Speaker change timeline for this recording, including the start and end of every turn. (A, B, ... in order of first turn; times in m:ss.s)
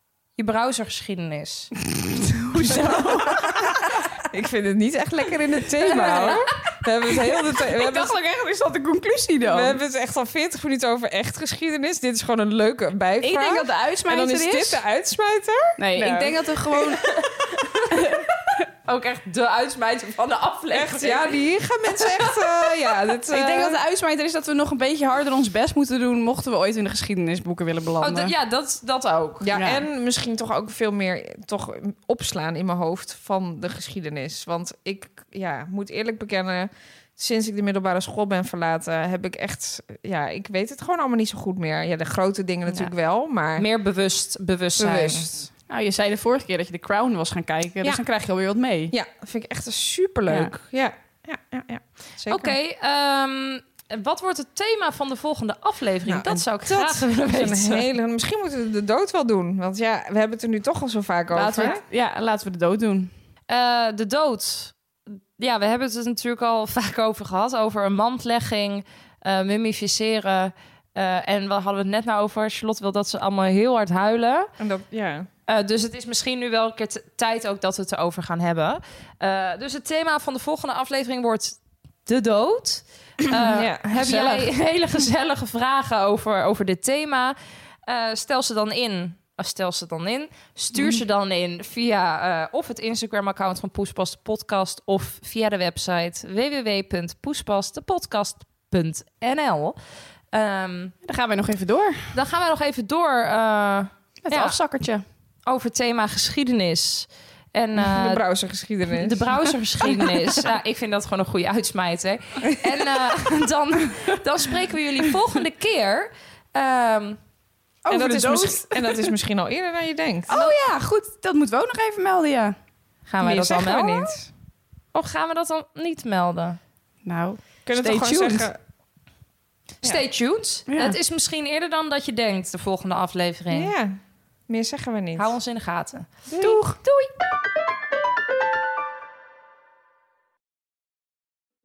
0:00.4-0:01.7 A
0:02.5-0:03.8 B
0:02.6-0:03.3 A
0:04.3-0:08.1 C
0:05.8-0:06.4 B
0:06.0-0:06.5 A
0:07.8-0:09.8 B
0:09.4-0:16.4 C
0:13.2-0:14.8 B
0:15.8-0:17.1 B
0:17.1-0:18.0 A
0:17.9-0:18.2 B
0:18.8-0:21.4 A
0:20.7-0:23.8 C
0:22.0-0:22.4 A
0:23.3-0:28.3 B
0:28.0-0:29.5 A
0:29.4-0:43.6 C
0:29.5-0:29.8 B
0:42.7-0:42.9 A
0:43.5-0:45.3 A
0:44.8-0:45.5 C
0:45.7-0:48.9 B
0:48.9-0:52.5 C
0:52.3-0:57.8 A
0:56.0-1:01.8 C
1:01.3-1:03.1 B
1:03.5-1:14.5 A
1:14.6-1:15.3 C
1:15.5-1:39.8 A
1:23.5-1:23.9 C
1:23.9-1:24.5 B
1:40.3-1:40.9 A
1:41.0-1:42.2 B
1:42.1-1:44.6 A
1:44.2-1:45.0 B
1:45.4-1:48.2 A
1:47.8-1:50.4 C
1:49.0-1:57.2 A
1:57.8-1:59.0 B
1:57.9-2:00.4 C
2:00.3-2:02.6 B
2:03.1-2:04.2 A
2:03.2-2:04.3 C
2:04.9-2:06.6 A
2:07.0-2:08.5 B
2:07.6-2:08.6 C
2:09.8-2:13.7 A
2:10.7-2:11.0 B
2:13.5-2:15.3 C
2:15.2-2:17.1 A
2:16.3-2:16.8 B